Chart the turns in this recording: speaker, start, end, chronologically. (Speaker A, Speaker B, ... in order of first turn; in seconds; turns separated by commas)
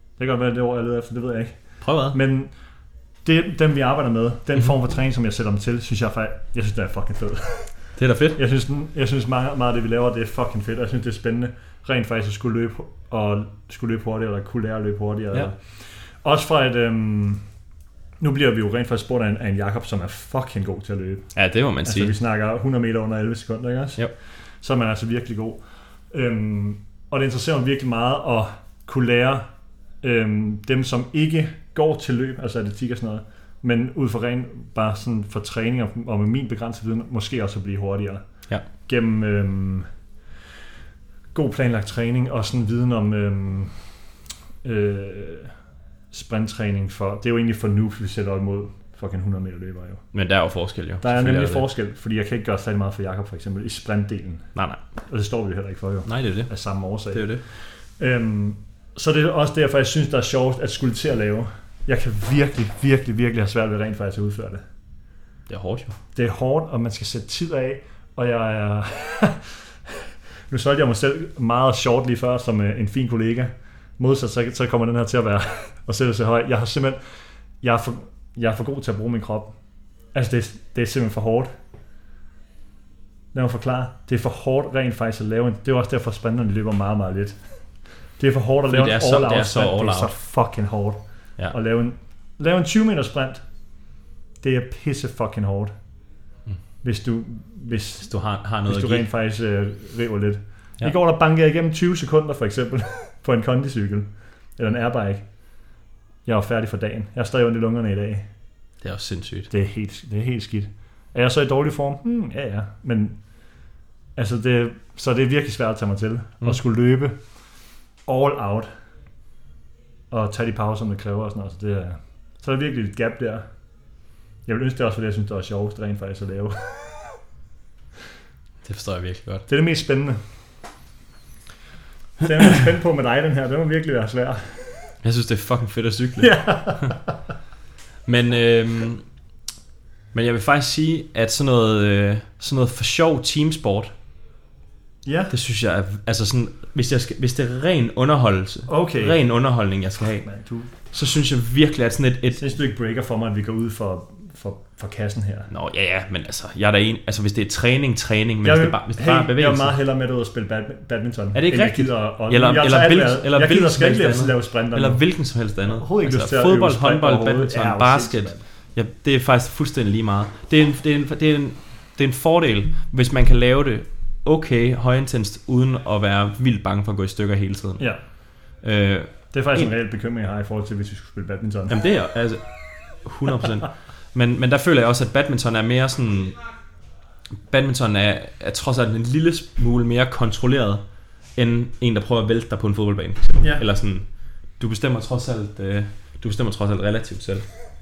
Speaker A: 0.2-2.5, Speaker B: 1.8-2.2, Speaker A: 3.2-17.4, Speaker B: 8.0-8.4, Speaker A: 18.2-21.3, Speaker B: 21.3-22.1, Speaker A: 21.8-24.1, Speaker A: 24.6-29.5, Speaker A: 30.0-38.2, Speaker A: 38.8-39.9, Speaker A: 41.3-43.9, Speaker A: 44.6-45.5, Speaker A: 46.1-50.0, Speaker B: 50.1-51.6, Speaker A: 51.0-54.5, Speaker B: 54.5-54.8, Speaker A: 55.1-64.6, Speaker B: 56.0-56.5, Speaker B: 57.1-57.4, Speaker B: 65.5-66.0, Speaker A: 66.1-77.0, Speaker A: 77.6-79.5, Speaker A: 80.1-81.5, Speaker A: 83.3-87.5, Speaker A: 88.2-93.4, Speaker B: 88.7-90.1, Speaker A: 94.4-95.7, Speaker A: 96.8-98.1, Speaker B: 98.0-99.0, Speaker A: 98.7-105.3, Speaker A: 106.2-108.2, Speaker B: 108.8-109.5, Speaker A: 109.5-113.2, Speaker A: 114.2-117.2, Speaker A: 118.0-118.7, Speaker A: 120.1-123.5, Speaker A: 124.5-127.1, Speaker B: 128.6-129.4, Speaker A: 129.5-130.2, Speaker A: 132.2-135.0, Speaker B: 135.0-136.9, Speaker A: 136.2-137.2, Speaker B: 138.1-139.0, Speaker B: 140.1-143.9, Speaker A: 145.0-145.3, Speaker B: 145.3-150.3, Speaker A: 148.7-149.2, Speaker A: 150.2-150.7, Speaker B: 150.9-152.5, Speaker A: 152.4-155.5, Speaker B: 155.5-159.7, Speaker A: 158.4-165.0, Speaker B: 161.3-177.8, Speaker A: 165.7-168.4, Speaker B: 178.6-179.7, Speaker A: 179.3-181.8, Speaker B: 181.7-186.4, Speaker B: 187.5-190.8, Speaker B: 191.3-197.5